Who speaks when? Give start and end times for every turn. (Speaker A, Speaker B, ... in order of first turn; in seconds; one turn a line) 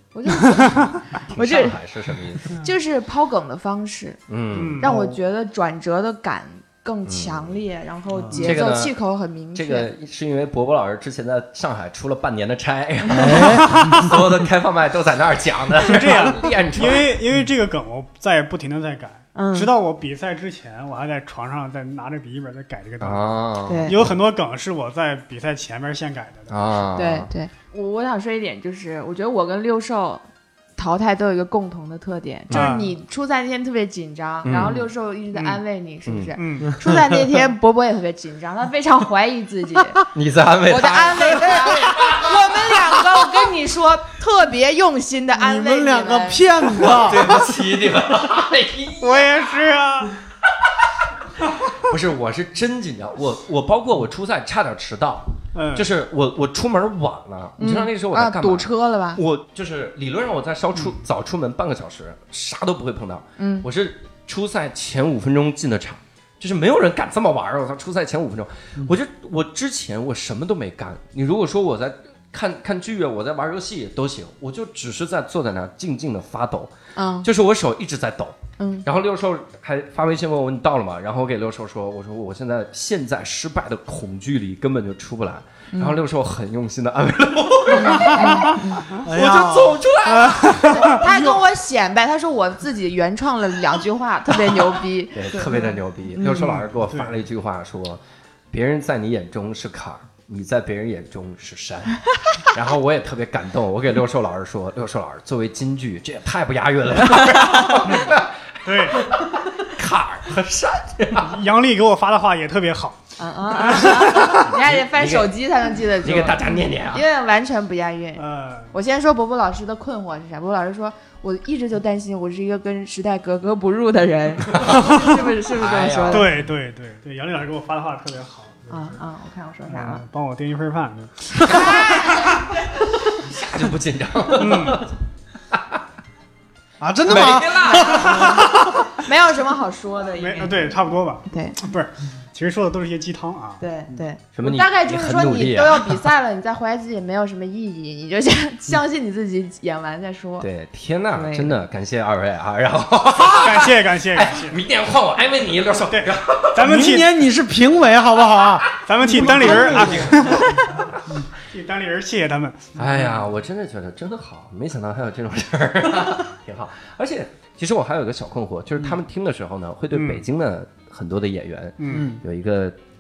Speaker A: 0.1-1.8
Speaker B: 0.3-0.8
Speaker C: 1.3-2.6
Speaker A: 2.5-4.2
Speaker C: 4.3-4.8
Speaker B: 4.5-4.9
Speaker A: 4.8-9.9
Speaker D: 4.8-5.2
Speaker C: 7.1-7.6
Speaker D: 8.1-8.5
Speaker C: 8.4-8.9
Speaker C: 9.6-17.1
Speaker D: 13.1-14.1
Speaker B: 13.4-14.1
Speaker B: 15.8-23.3
Speaker A: 19.4-19.7
Speaker C: 23.0-24.1
Speaker A: 23.7-24.0
Speaker B: 23.9-26.6
Speaker C: 26.5-27.3
Speaker A: 26.9-30.2
Speaker A: 30.8-40.0
Speaker B: 32.5-32.9
Speaker C: 34.5-34.8
Speaker B: 35.3-35.6
Speaker C: 36.1-36.4
Speaker B: 36.4-36.7
Speaker D: 36.6-37.2
Speaker C: 40.1-42.5
Speaker A: 40.7-46.8
Speaker D: 45.4-47.5
Speaker C: 46.8-49.4
Speaker B: 49.0-50.1
Speaker C: 51.7-91.0
Speaker B: 55.5-55.9
Speaker A: 57.6-59.2
Speaker A: 63.4-63.7
Speaker A: 77.0-77.3
Speaker A: 78.6-78.9
Speaker A: 85.7-86.0
Speaker A: 87.7-88.9
Speaker B: 87.8-88.6
Speaker D: 89.0-89.8
Speaker B: 90.1-91.1
Speaker A: 90.6-96.3
Speaker C: 95.1-111.4
Speaker B: 96.2-97.2
Speaker A: 107.2-107.7
Speaker B: 108.7-109.0
Speaker B: 111.2-114.4
Speaker A: 113.2-126.3
Speaker C: 114.0-115.3
Speaker C: 116.0-117.0
Speaker B: 118.2-118.7
Speaker C: 124.5-124.9
Speaker B: 124.7-125.2
Speaker C: 125.5-126.3
Speaker B: 126.1-129.0
Speaker A: 128.7-130.0
Speaker B: 129.7-132.4
Speaker A: 131.4-132.5
Speaker C: 131.5-131.9
Speaker C: 133.1-134.9
Speaker B: 134.3-134.9
Speaker C: 135.5-135.8
Speaker D: 136.8-138.9
Speaker C: 137.1-138.7
Speaker A: 137.9-138.3
Speaker B: 138.1-138.3
Speaker A: 139.0-141.6
Speaker B: 140.2-143.6
Speaker A: 143.6-150.5
Speaker C: 144.4-146.1
Speaker C: 150.4-156.7
Speaker A: 151.1-151.6
Speaker B: 153.3-154.6
Speaker B: 155.9-157.1
Speaker D: 156.6-160.4
Speaker B: 158.8-160.8
Speaker C: 159.1-160.9
Speaker B: 161.4-163.2
Speaker C: 162.8-172.8
Speaker B: 169.9-170.2
Speaker B: 171.8-172.1
Speaker D: 171.9-172.2